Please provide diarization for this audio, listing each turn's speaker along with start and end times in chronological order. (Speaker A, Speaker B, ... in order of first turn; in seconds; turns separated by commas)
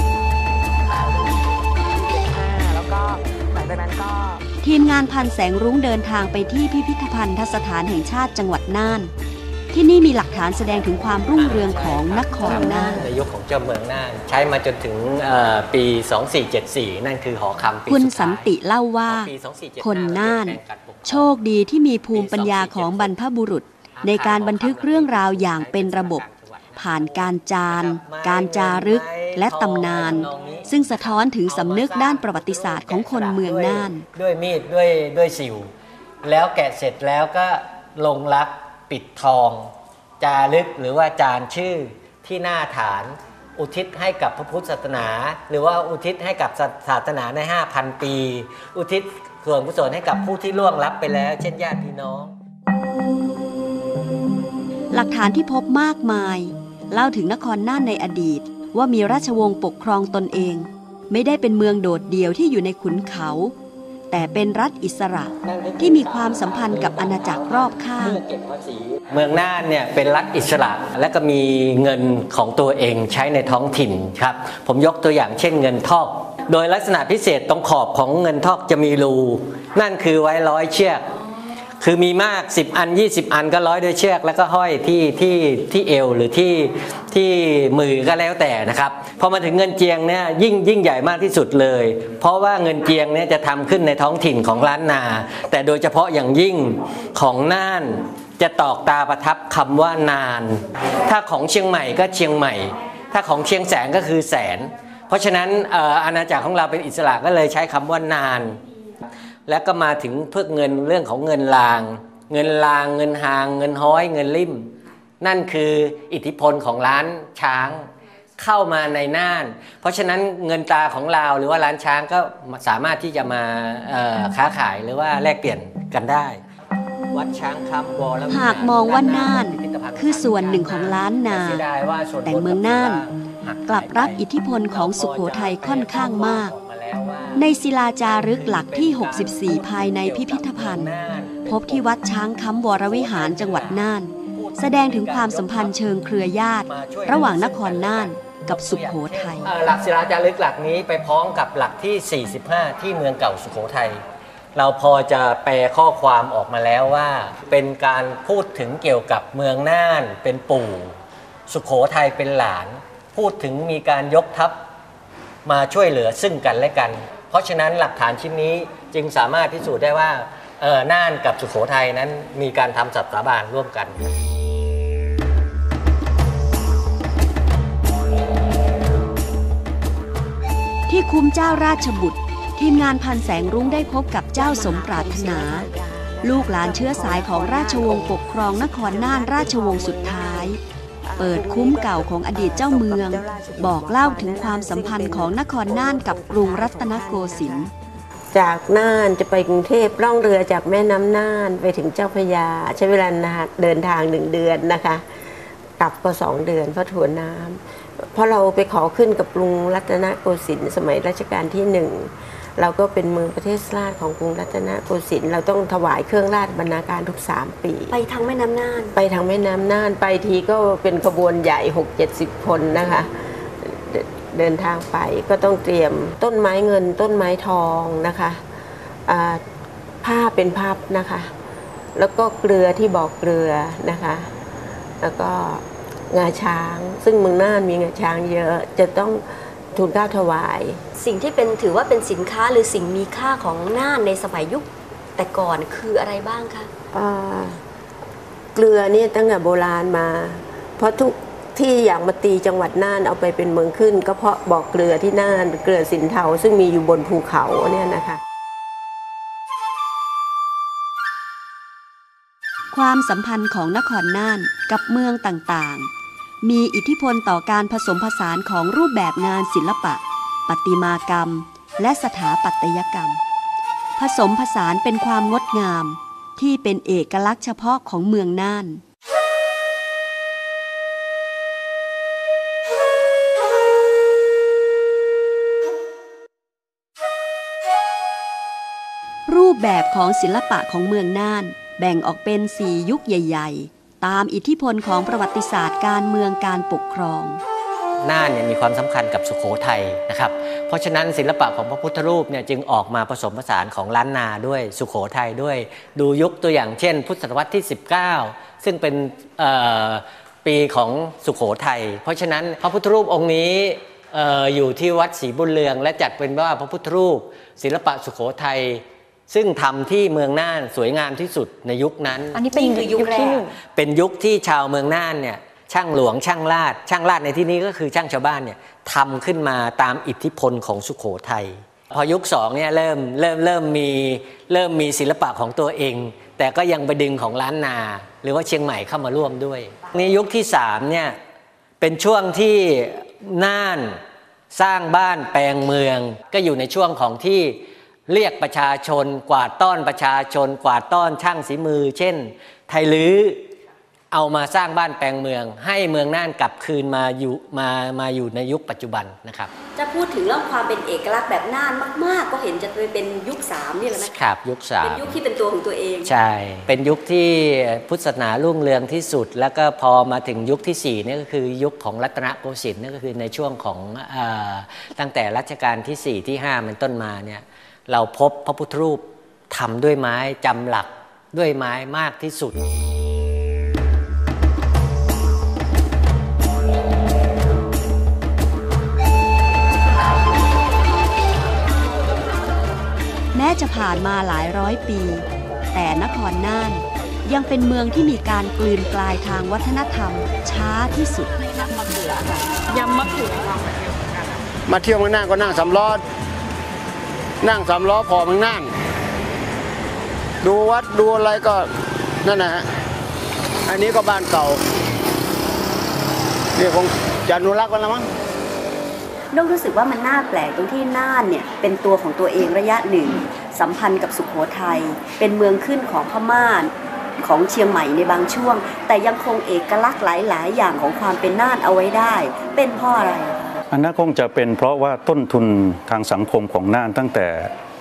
Speaker A: 2.1-4.4, Speaker B: 4.6-9.1, Speaker B: 9.7-13.1, Speaker C: 11.3-18.5, Speaker B: 17.9-26.2, Speaker C: 19.1-21.3, Speaker C: 22.1-23.1, Speaker C: 24.0-35.7, Speaker B: 26.8-34.0, Speaker C: 36.2-52.3, Speaker B: 54.9-63.5, Speaker B: 64.1-68.2, Speaker C: 65.4-81.1, Speaker C: 81.8-108.6, Speaker C: 109.5-126.4, Speaker C: 127.1-137.5, Speaker B: 128.3-131.6, Speaker B: 132.2-133.0, Speaker B: 133.7-136.5, Speaker B: 137.4-140.9, Speaker C: 138.0-142.0, Speaker B: 141.5-149.5, Speaker C: 142.8-145.8, Speaker C: 146.7-154.0, Speaker C: 154.6-161.0, Speaker C: 161.5-164.6, Speaker C: 165.4-173.9, Speaker B: 180.9-185.7, Speaker D: 184.3-190.6, Speaker B: 186.2-190.6, Speaker D: 191.1-197.7, Speaker B: 191.2-197.7, Speaker D: 198.3-205.0, Speaker D: 205.8-217.9, Speaker B: 217.9-218.9, Speaker D: 218.9-223.1, Speaker D: 223.6-228.4, Speaker D: 229.1-229.4, Speaker D: 230.0-231.3, Speaker D: 232.0-234.3, Speaker D: 235.0-240.8, Speaker B: 241.0-246.7, Speaker D: 246.9-247.6, Speaker D: 248.6-258.2, Speaker B: 262.7-265.9, Speaker B: 266.4-273.2, Speaker B: 274.0-278.8, Speaker B: 289.3-297.4, Speaker C: 298.0-322.5, Speaker B: 322.3-323.6, Speaker C: 323.7-341.2, Speaker C: 341.8-344.0, Speaker C: 344.5-353.4, Speaker C: 354.1-359.5, Speaker B: 359.8-364.2, Speaker C: 363.9-365.2, Speaker B: 364.8-366.1, Speaker C: 366.1-382.6, Speaker B: 393.3-402.1, Speaker E: 404.7-406.0, Speaker E: 407.4-408.7, Speaker E: 410.4-411.7, Speaker E: 412.2-412.6, Speaker E: 413.7-414.6, Speaker E: 416.6-418.1, Speaker B: 419.3-433.6, Speaker F: 433.7-437.5